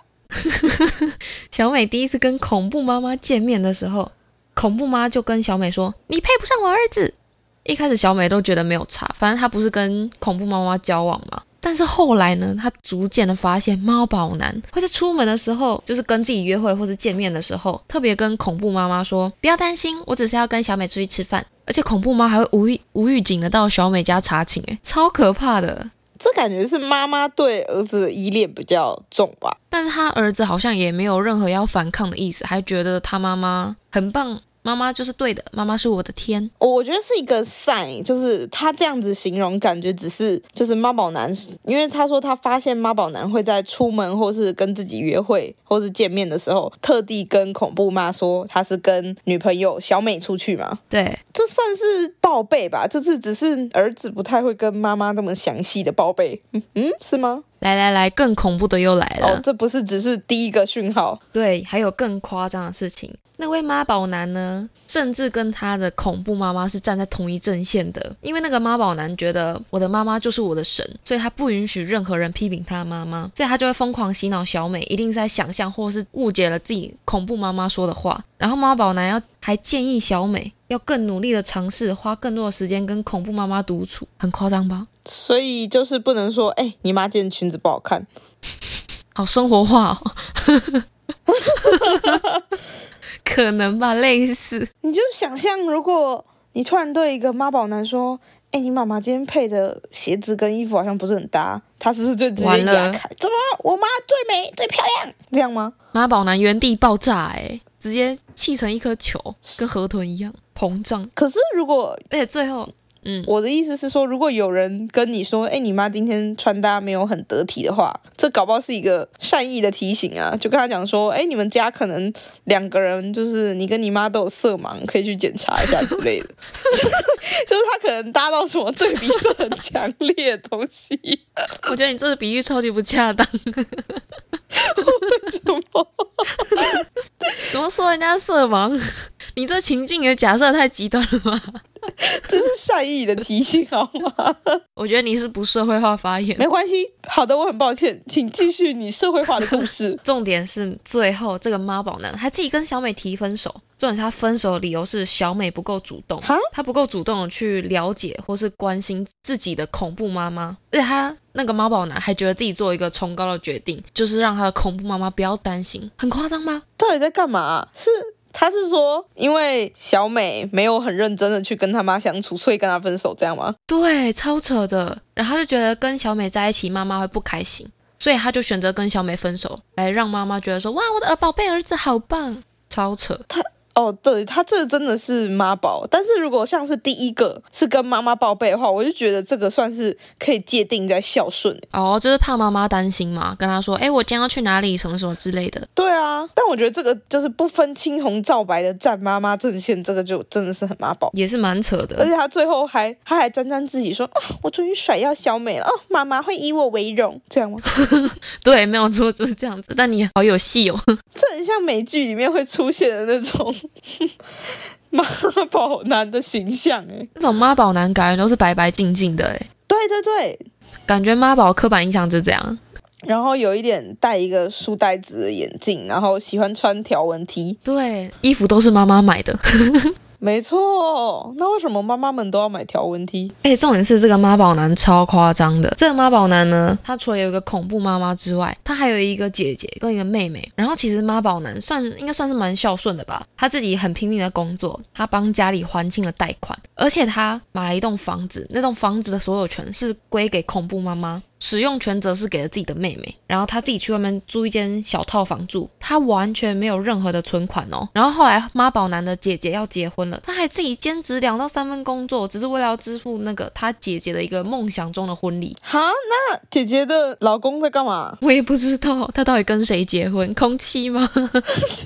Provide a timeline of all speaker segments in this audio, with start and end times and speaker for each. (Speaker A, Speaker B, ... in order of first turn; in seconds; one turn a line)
Speaker A: 0.4-25.9
Speaker B: 26.2-29.6
Speaker A: 29.7-36.5
Speaker B: 36.6-50.8
Speaker A: 50.9-51.2
Speaker B: 51.3-57.4
Speaker A: 57.6-59.4
Speaker B: 59.2-61.2
Speaker A: 61.3-84.9
Speaker B: 85.1-88.1
Speaker A: 89.2-90.8
Speaker B: 91.3-92.4
Speaker A: 91.6-92.2
Speaker A: 93.2-94.7
Speaker B: 94.8-105.7
Speaker A: 102.4-103.0
Speaker A: 105.9-111.1
Speaker B: 111.2-112.0
Speaker A: 112.1-113.3
Speaker B: 113.3-131.2
Speaker A: 131.7-134.0
Speaker B: 134.6-137.4
Speaker A: 134.8-135.2
Speaker A: 136.4-136.8
Speaker A: 137.5-141.6
Speaker B: 142.1-144.6
Speaker A: 144.8-146.5
Speaker B: 146.4-150.0
Speaker A: 150.0-166.6
Speaker B: 156.2-156.5
Speaker B: 166.8-173.6
Speaker A: 173.7-183.2
Speaker B: 183.3-191.7
Speaker A: 191.7-195.7
Speaker B: 195.8-201.1
Speaker A: 201.1-202.1
Speaker B: 202.0-207.7
Speaker A: 207.8-210.8
Speaker B: 211.2-214.1
Speaker B: 214.9-217.1
Speaker A: 217.2-219.5
Speaker B: 219.7-220.4
Speaker A: 220.9-222.6
Speaker B: 223.1-227.6
Speaker A: 227.7-229.9
Speaker B: 230.2-233.3
Speaker A: 233.4-265.6
Speaker B: 265.6-268.2
Speaker A: 268.2-271.5